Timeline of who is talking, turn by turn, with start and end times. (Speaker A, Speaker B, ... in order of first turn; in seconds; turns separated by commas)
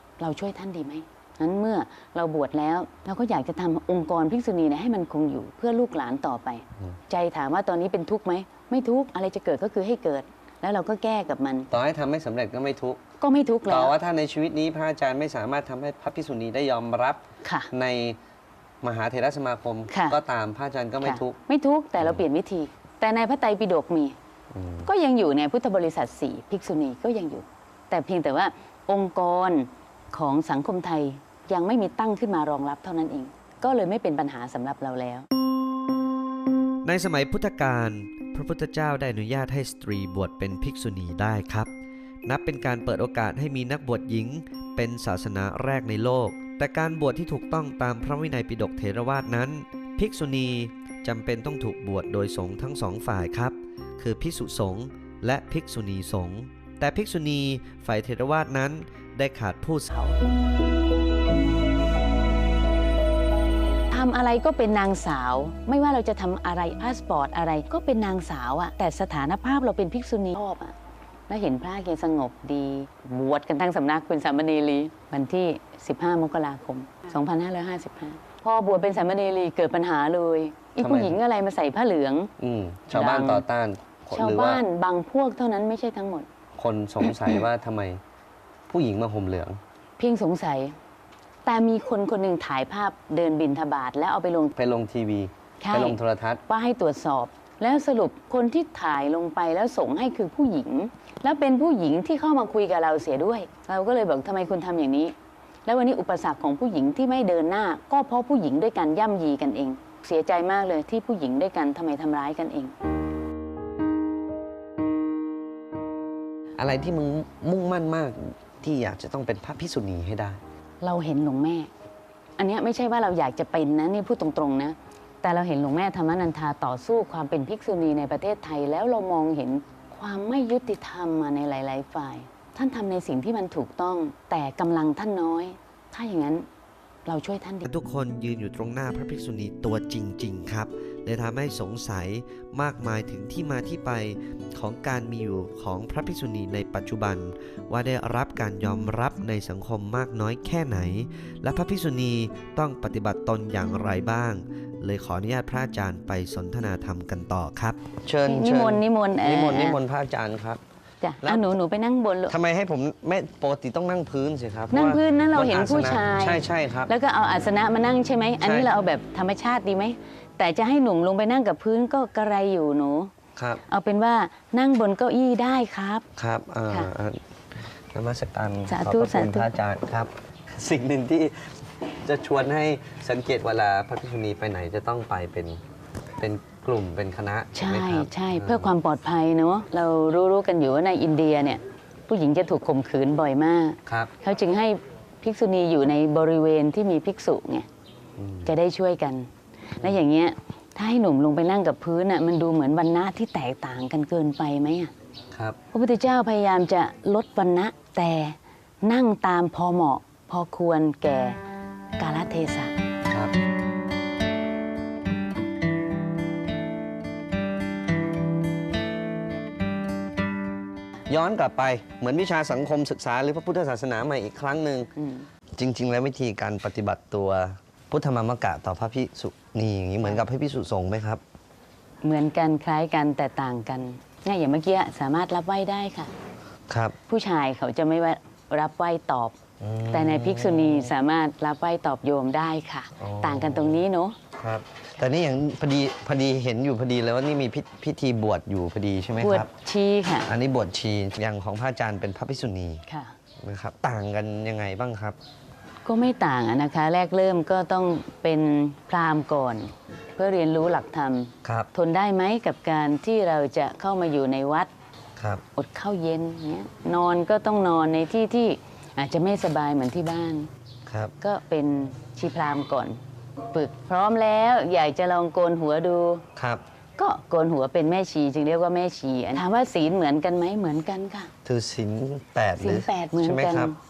Speaker A: 0.2-11.7, Speaker B: 11.7-13.0, Speaker A: 13.2-13.9, Speaker B: 13.7-18.2, Speaker A: 17.4-17.7, Speaker B: 18.8-21.4, Speaker A: 19.9-20.2, Speaker A: 21.0-24.2, Speaker B: 24.5-24.9, Speaker A: 24.9-35.3, Speaker C: 36.9-41.6, Speaker B: 36.9-41.6, Speaker C: 42.3-50.4, Speaker B: 42.3-44.2, Speaker B: 44.8-59.8, Speaker C: 53.1-54.5, Speaker C: 56.8-57.9, Speaker C: 58.9-59.9, Speaker A: 59.9-60.2, Speaker A: 63.9-70.8, Speaker A: 71.3-82.3, Speaker B: 80.8-81.2, Speaker B: 82.4-84.6, Speaker A: 82.9-83.4, Speaker A: 84.1-86.3, Speaker B: 86.6-88.0, Speaker B: 88.7-89.6, Speaker A: 90.0-90.8, Speaker A: 91.5-94.5, Speaker B: 94.6-96.4, Speaker A: 95.6-105.1, Speaker A: 105.7-112.7, Speaker B: 116.6-120.4, Speaker A: 120.8-121.7, Speaker A: 122.4-136.5, Speaker A: 137.1-137.7, Speaker C: 137.7-157.8, Speaker B: 138.0-139.3, Speaker B: 139.8-140.6, Speaker B: 141.1-141.8, Speaker B: 143.3-143.6, Speaker B: 145.0-146.6, Speaker B: 151.6-153.0, Speaker B: 153.7-154.3, Speaker B: 154.8-156.9, Speaker B: 158.0-160.6, Speaker A: 158.2-159.8, Speaker A: 161.0-162.4, Speaker B: 161.2-161.5, Speaker B: 162.3-166.9, Speaker A: 164.7-173.1, Speaker B: 168.4-168.7, Speaker B: 173.4-173.6, Speaker A: 173.7-176.1, Speaker B: 176.2-185.6, Speaker A: 178.7-179.5, Speaker B: 186.2-188.7, Speaker A: 187.5-197.7, Speaker B: 193.9-194.1, Speaker B: 198.2-198.5, Speaker A: 198.4-204.9, Speaker B: 205.3-205.6, Speaker A: 205.7-211.4, Speaker A: 212.0-212.7, Speaker B: 213.1-213.3, Speaker B: 221.1-224.9, Speaker A: 225.0-225.3, Speaker B: 225.6-231.2, Speaker A: 232.0-236.1, Speaker B: 236.7-237.0, Speaker A: 237.1-239.3, Speaker B: 239.6-240.9, Speaker A: 239.9-244.2, Speaker B: 243.0-243.8, Speaker B: 244.4-249.5, Speaker A: 249.2-250.3, Speaker B: 250.2-252.8, Speaker A: 252.9-253.2, Speaker B: 253.4-255.2, Speaker A: 255.8-264.7, Speaker B: 261.4-261.7, Speaker B: 265.2-265.4, Speaker A: 265.6-270.5, Speaker B: 270.9-271.1, Speaker A: 271.2-273.0, Speaker A: 273.5-276.2, Speaker B: 276.4-276.6, Speaker A: 277.0-281.3, Speaker B: 281.4-283.7, Speaker A: 282.6-283.8